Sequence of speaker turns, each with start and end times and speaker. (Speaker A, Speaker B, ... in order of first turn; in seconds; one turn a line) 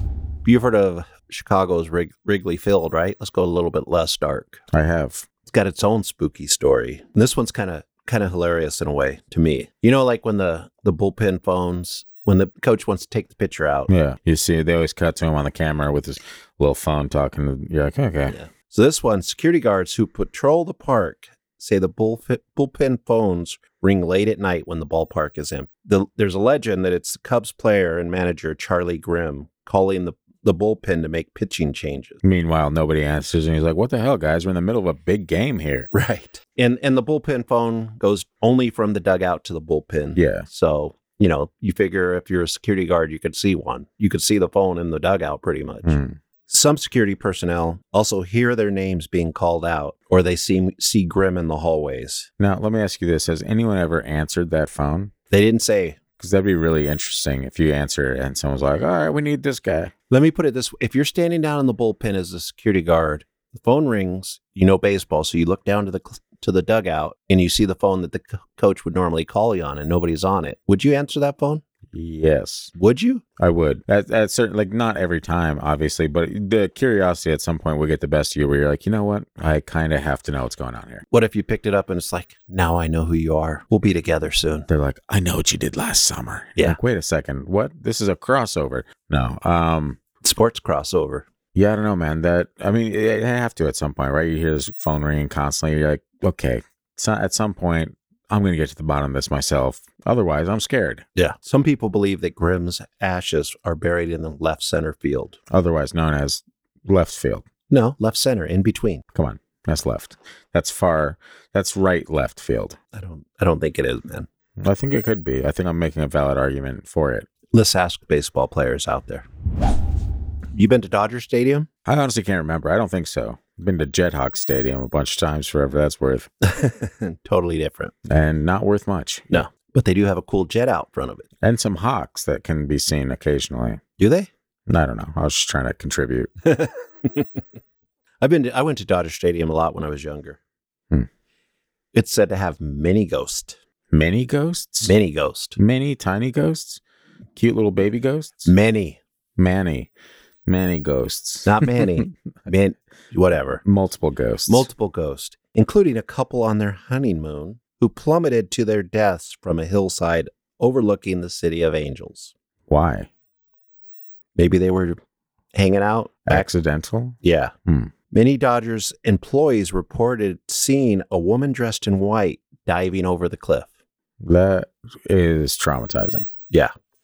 Speaker A: 0.4-4.6
Speaker B: 4.7-5.3
Speaker A: 5.5-13.9
Speaker B: 13.9-18.4
Speaker A: 18.3-32.2
Speaker B: 32.2-35.9
Speaker A: 35.9-46.0
Speaker B: 40.1-40.5
Speaker B: 45.8-46.2
Speaker A: 46.5-52.3
Speaker B: 52.4-55.1
Speaker A: 55.3-56.0
Speaker B: 56.2-59.9
Speaker A: 60.1-71.6
Speaker B: 71.9-72.7
Speaker A: 72.8-73.2
Speaker B: 73.4-81.0
Speaker A: 81.1-84.7
Speaker B: 84.7-90.0
Speaker A: 90.2-91.2
Speaker B: 91.5-101.0
Speaker A: 101.2-105.4
Speaker B: 105.5-107.4
Speaker A: 107.7-109.0
Speaker B: 109.1-112.8
Speaker A: 112.9-114.3
Speaker B: 114.6-117.3
Speaker A: 117.5-119.3
Speaker A: 120.5-121.7
Speaker B: 121.8-126.3
Speaker A: 126.4-127.9
Speaker B: 128.1-129.4
Speaker A: 129.3-131.3
Speaker B: 131.4-133.8
Speaker A: 134.0-134.3
Speaker B: 134.7-136.3
Speaker A: 136.4-137.4
Speaker A: 138.2-140.4
Speaker A: 141.9-143.6
Speaker B: 143.9-144.9
Speaker A: 144.8-145.6
Speaker B: 145.6-146.8
Speaker B: 147.3-148.5
Speaker A: 148.4-149.0
Speaker B: 149.4-149.9
Speaker B: 150.4-151.9
Speaker A: 151.4-153.6
Speaker B: 153.6-154.7
Speaker A: 154.5-162.3
Speaker B: 162.7-163.1
Speaker A: 164.3-165.0
Speaker A: 165.5-166.5
Speaker B: 166.2-167.9
Speaker A: 167.2-167.5
Speaker A: 168.1-173.7
Speaker B: 174.2-176.3